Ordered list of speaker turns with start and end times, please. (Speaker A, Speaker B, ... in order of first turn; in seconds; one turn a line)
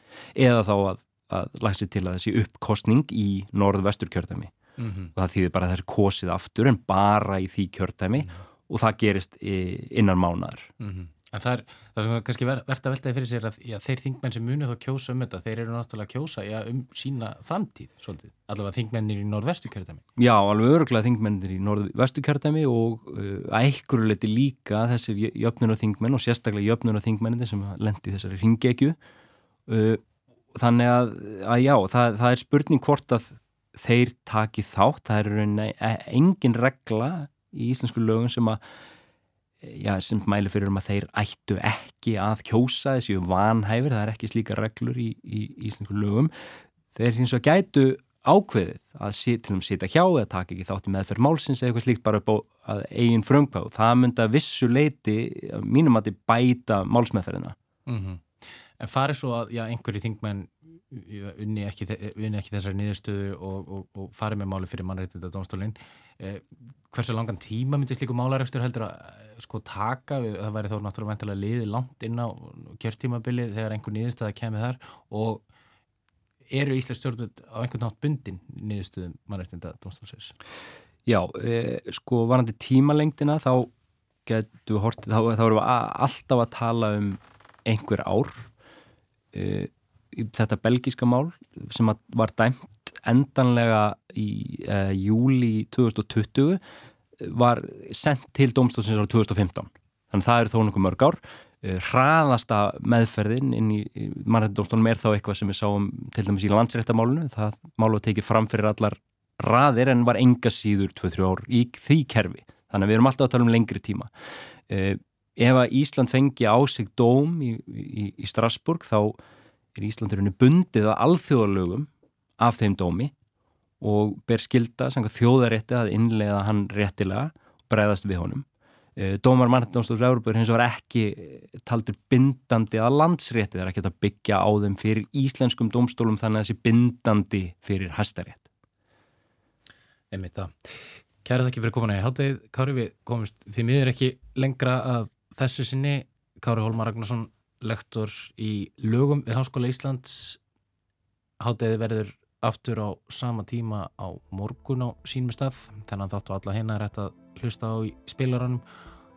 Speaker A: 0.3-4.5
Speaker B: 4.8-5.1
Speaker A: 5.2-10.7
Speaker B: 10.8-20.0
Speaker A: 20.2-28.9
Speaker A: 29.7-30.0
Speaker A: 30.5-38.6
Speaker A: 39.6-46.3
Speaker A: 46.9-57.5
Speaker B: 57.9-58.2
Speaker B: 58.8-75.4
Speaker B: 76.5-80.3
Speaker A: 81.1-83.7
Speaker A: 84.2-88.5
Speaker A: 89.3-96.6
Speaker A: 97.2-114.1
Speaker A: 114.7-119.2
Speaker A: 119.8-121.9
Speaker A: 122.4-123.1
Speaker A: 123.8-128.4
Speaker A: 129.0-138.5
Speaker B: 140.1-140.7
Speaker B: 141.2-150.4
Speaker B: 151.4-158.6